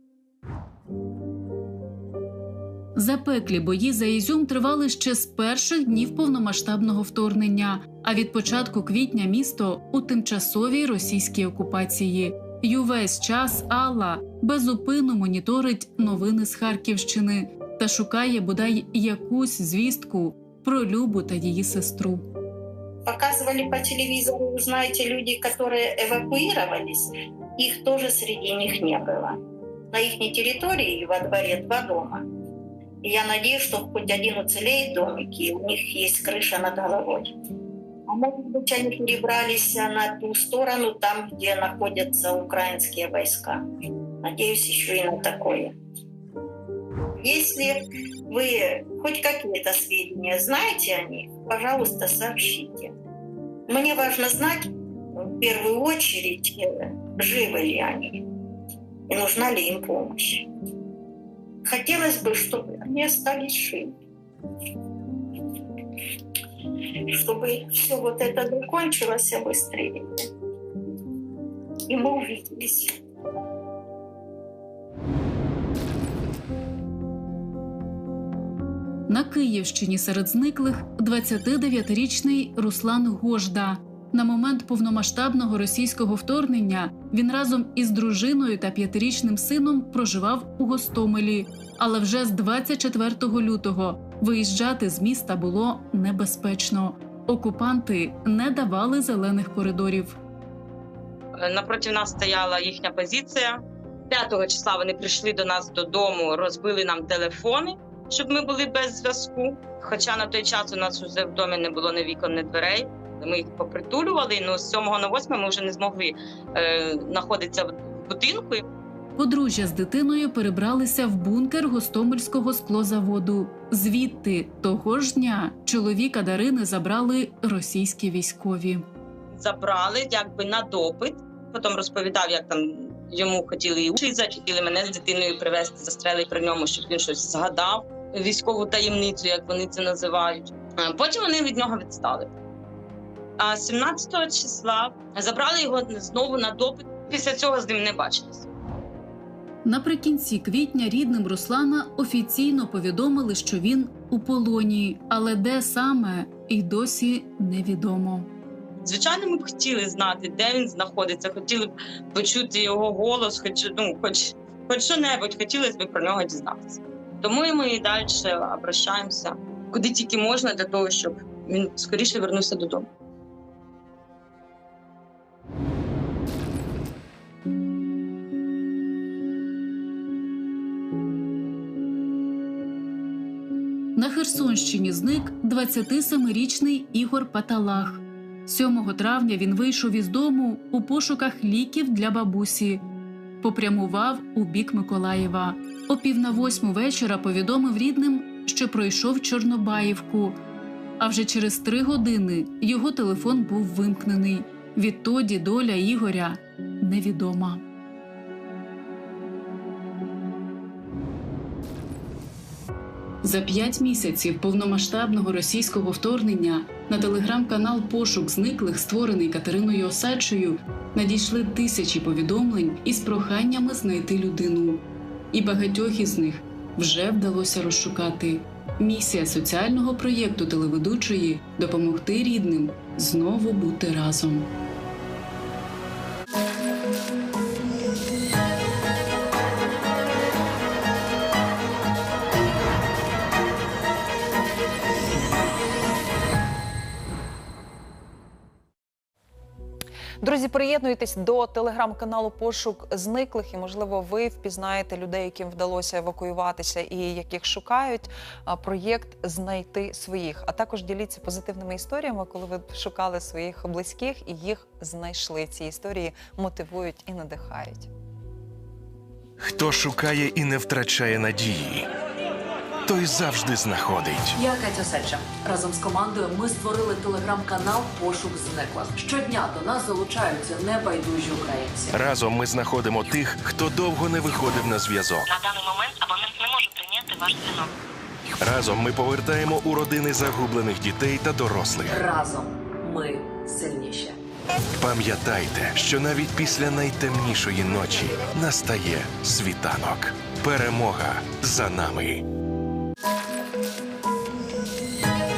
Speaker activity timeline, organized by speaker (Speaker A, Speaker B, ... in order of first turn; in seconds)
Speaker A: 3.0-22.2, 79.1-100.2, 119.2-128.8, 149.6-158.3, 183.9-192.8, 193.4-200.4, 201.0-207.6, 213.2-234.5
Speaker B: 23.0-29.4, 29.9-32.2, 33.0-37.3, 38.1-43.6, 44.2-45.7, 47.2-47.7, 48.3-52.9, 53.7-54.6, 55.1-58.2, 59.1-60.5, 61.6-63.9, 67.1-70.3, 71.9-72.9
Speaker C: 101.4-118.6, 129.3-142.3, 143.4-148.5, 158.8-172.9
Speaker D: 250.2-267.9
Speaker E: 269.4-271.9, 272.9-274.4, 281.9-285.3, 288.4-292.0, 294.8-302.2
Speaker F: 274.3-282.0, 291.9-294.2
Speaker G: 285.3-287.7